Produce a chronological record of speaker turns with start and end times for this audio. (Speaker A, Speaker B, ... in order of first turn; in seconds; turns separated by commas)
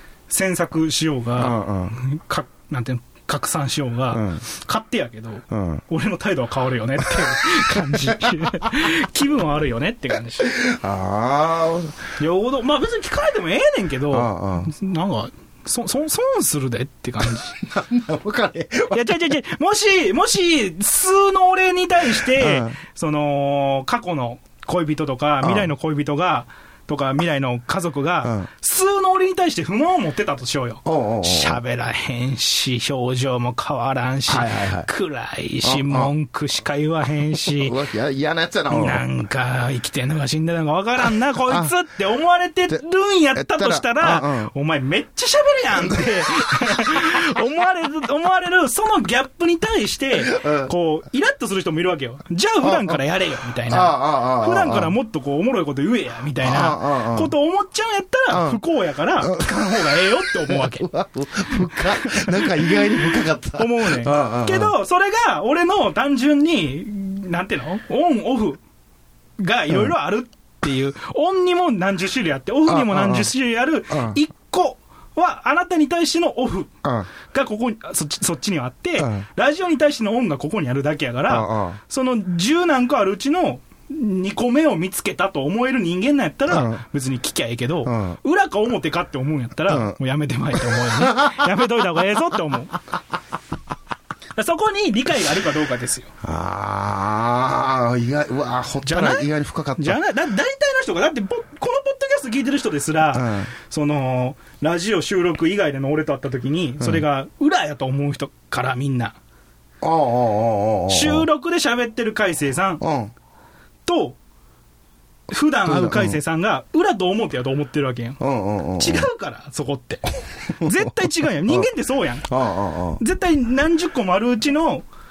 Speaker A: 0.3-10.6, Speaker B: 1.4-2.0, Speaker B: 4.1-4.4, Speaker B: 5.5-5.8, Speaker B: 7.8-8.5, Speaker B: 10.4-12.0, Speaker A: 12.2-17.6, Speaker B: 14.1-14.7, Speaker B: 17.6-19.1, Speaker A: 18.9-37.7, Speaker B: 22.2-22.8, Speaker B: 25.4-25.7, Speaker B: 28.2-28.5, Speaker B: 30.8-31.6, Speaker B: 34.3-34.9, Speaker B: 35.6-36.1, Speaker B: 37.3-39.0, Speaker A: 38.7-60.9, Speaker B: 43.3-44.5, Speaker B: 50.2-50.7, Speaker B: 52.6-53.0, Speaker B: 53.7-54.9, Speaker B: 56.4-57.3, Speaker B: 58.3-58.6, Speaker B: 59.2-64.7, Speaker A: 61.8-62.8, Speaker A: 63.6-68.6, Speaker A: 69.4-76.7, Speaker B: 72.7-73.3, Speaker B: 73.9-74.2, Speaker B: 76.8-77.1, Speaker A: 77.3-92.8, Speaker B: 79.0-79.2, Speaker B: 81.3-81.8, Speaker B: 86.5-86.8, Speaker B: 87.8-88.2, Speaker B: 89.7-90.0, Speaker B: 90.7-91.5, Speaker A: 94.3-96.1, Speaker B: 96.2-100.0, Speaker A: 98.8-109.2, Speaker B: 103.1-103.5, Speaker B: 109.8-111.3, Speaker A: 110.9-112.8, Speaker B: 112.8-113.1, Speaker A: 113.8-114.2, Speaker A: 115.3-118.2, Speaker B: 115.7-116.2, Speaker B: 118.2-119.1, Speaker A: 118.8-122.3, Speaker B: 122.3-123.0, Speaker A: 123.0-124.8